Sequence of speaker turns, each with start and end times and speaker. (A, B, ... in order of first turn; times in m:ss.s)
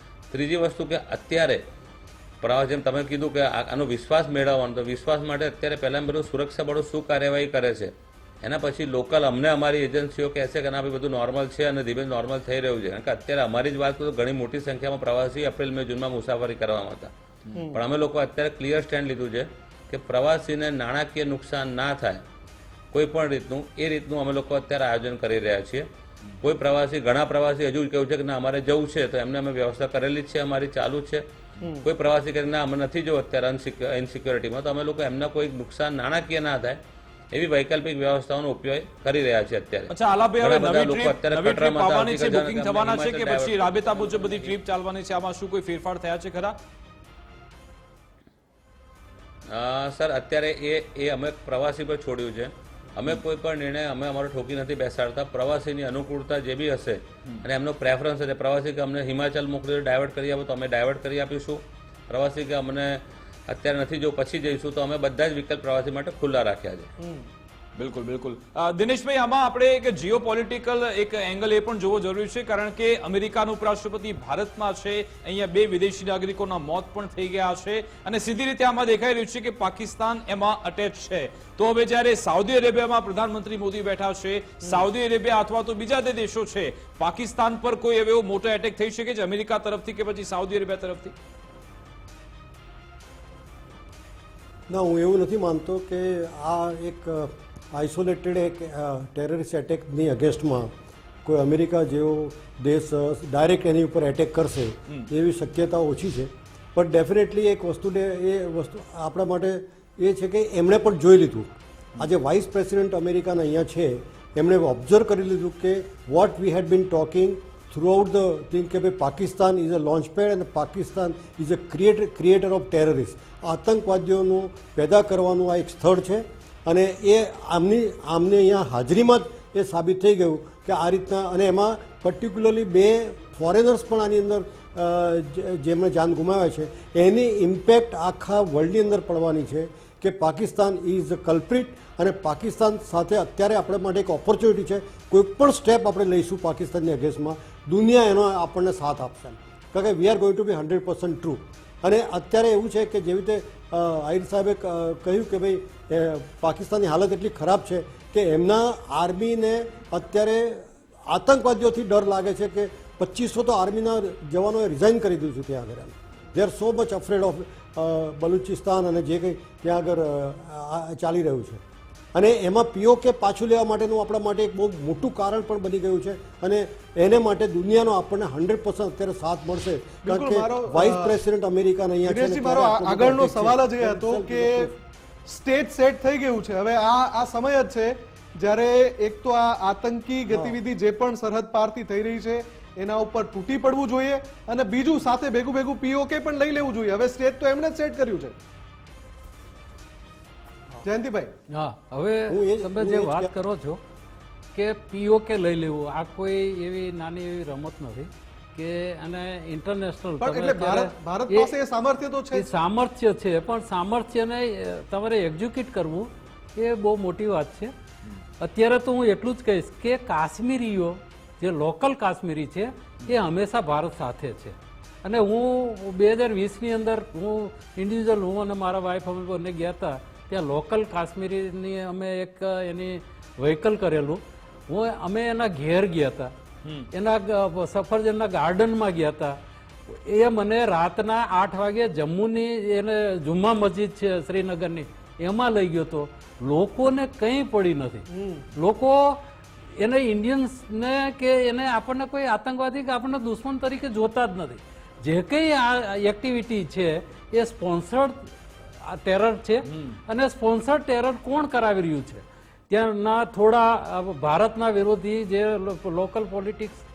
0:00.3-0:01.6 A
0:02.4-0:17.1 A
0:17.6-0:17.8 B
0:17.7-0:22.2 A
0:22.9-0:25.9 A
0:26.4-0:31.2 A
0:31.6-0:31.9 B
0:31.8-0:36.8 A
0:37.3-0:44.6 A
0:39.9-0:46.6 C
0:49.5-1:06.9 A
1:07.0-1:07.3 B
1:07.8-1:31.1 C
1:34.7-2:51.6 D
2:52.2-3:04.8 D
3:00.0-3:01.1 B
3:02.0-3:04.7 B
3:05.3-3:18.4 B
3:10.3-3:10.6 D
3:20.8-3:21.3 B
3:21.5-3:23.8 E
3:22.3-3:23.3 D
3:24.6-3:31.5 E
3:30.2-3:32.5 B
3:32.3-3:37.7 E
3:38.4-3:56.3 E
3:56.6-3:56.9 C
3:56.9-3:59.4 E
3:59.9-4:09.2 E
4:08.1-4:08.5 B
4:09.8-4:26.8 E
4:19.7-4:20.0 C